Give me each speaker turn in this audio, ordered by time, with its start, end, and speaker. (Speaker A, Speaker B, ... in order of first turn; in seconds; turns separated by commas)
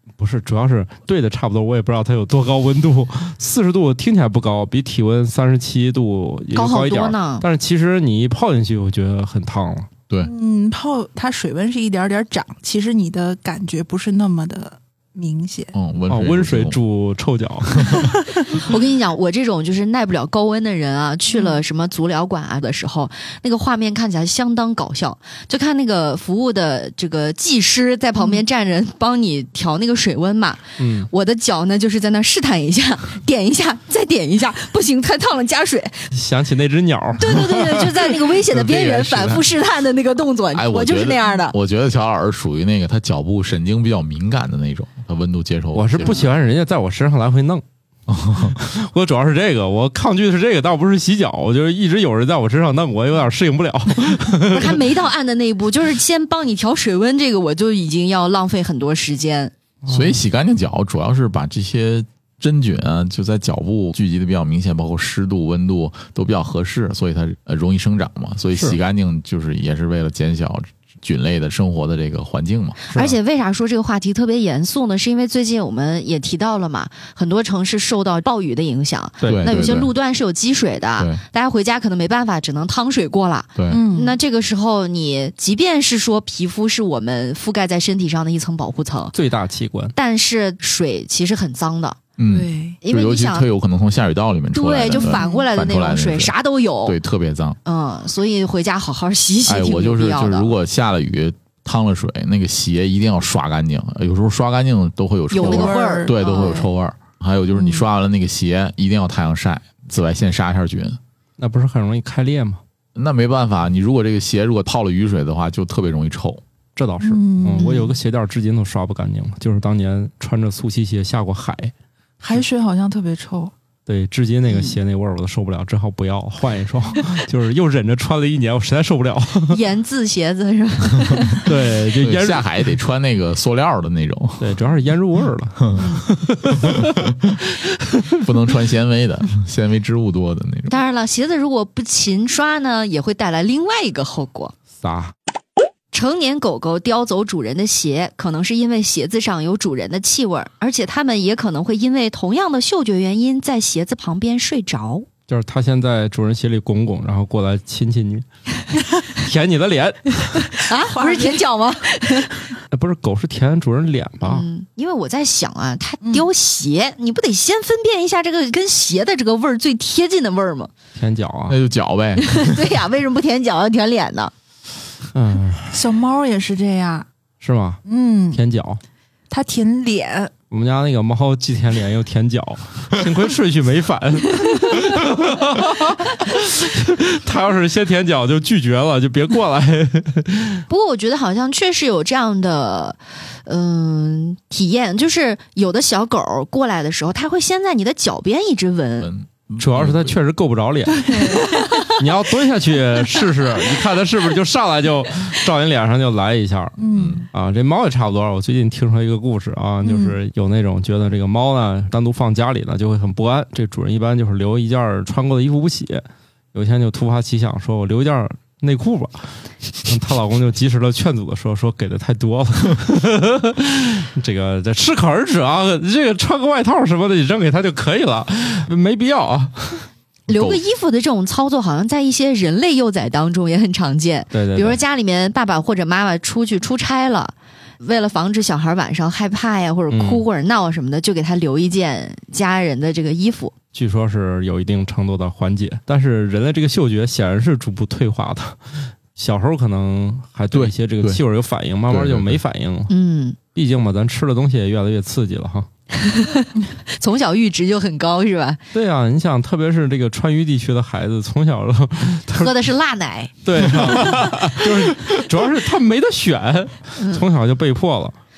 Speaker A: 0.2-9.9, Speaker B: 6.5-7.5, Speaker C: 10.2-15.7, Speaker D: 15.7-16.8, Speaker A: 16.1-18.1, Speaker B: 18.6-36.1, Speaker C: 21.3-21.6, Speaker A: 30.8-31.1, Speaker A: 36.1-37.8, Speaker B: 37.2-41.6, Speaker D: 38.2-39.5, Speaker D: 40.5-46.3, Speaker A: 45.7-47.6, Speaker D: 48.1-48.6, Speaker A: 48.5-54.8, Speaker B: 54.5-59.5, Speaker A: 59.9-60.2, Speaker D: 59.9-72.8, Speaker B: 72.9-89.1, Speaker D: 79.2-79.9, Speaker D: 83.6-83.8, Speaker C: 83.7-84.2, Speaker A: 89.1-90.0, Speaker B: 90.0-92.0, Speaker D: 92.2-97.6, Speaker C: 92.2-92.8, Speaker B: 92.8-93.5, Speaker B: 94.5-97.0, Speaker C: 94.9-95.5, Speaker B: 97.7-100.5, Speaker D: 99.5-111.0, Speaker B: 105.3-106.7, Speaker C: 105.3-106.7, Speaker A: 111.4-112.6, Speaker D: 113.0-116.4, Speaker A: 116.8-121.7, Speaker C: 117.0-117.8, Speaker B: 117.6-117.9, Speaker C: 122.2-123.5, Speaker A: 123.9-129.6, Speaker B: 124.5-124.8, Speaker B: 129.5-131.4, Speaker A: 131.4-132.4, Speaker D: 131.9-134.5, Speaker A: 134.4-137.0, Speaker D: 136.6-137.4, Speaker D: 138.1-140.7, Speaker B: 140.7-144.5, Speaker A: 144.8-145.1, Speaker B: 145.9-155.1, Speaker A: 155.3-158.2, Speaker A: 159.1-160.5, Speaker B: 160.5-162.4, Speaker C: 160.8-161.4, Speaker A: 162.7-164.5, Speaker B: 164.2-170.7, Speaker C: 166.0-166.3, Speaker A: 171.0-171.6, Speaker D: 171.5-172.6, Speaker B: 172.2-174.3, Speaker A: 175.1-175.8, Speaker C: 175.7-177.1, Speaker A: 177.4-177.8, Speaker C: 177.9-178.4, Speaker A: 178.3-178.8, Speaker C: 179.3-180.3, Speaker A: 180.5-190.6, Speaker B: 190.7-199.1, Speaker D: 199.0-200.2, Speaker A: 199.6-206.8, Speaker C: 200.9-201.9, Speaker C: 206.8-207.3, Speaker D: 206.9-207.3, Speaker A: 207.3-229.9, Speaker C: 209.8-210.2, Speaker B: 230.3-243.5, Speaker D: 230.3-230.6, Speaker A: 234.3-234.8, Speaker A: 239.9-240.2, Speaker A: 243.7-252.9, Speaker D: 250.5-251.2, Speaker D: 251.9-252.4, Speaker B: 252.9-253.4, Speaker A: 253.6-255.7, Speaker B: 255.9-258.6, Speaker A: 258.7-262.6, Speaker B: 262.3-264.1, Speaker A: 263.4-268.2, Speaker B: 267.0-267.2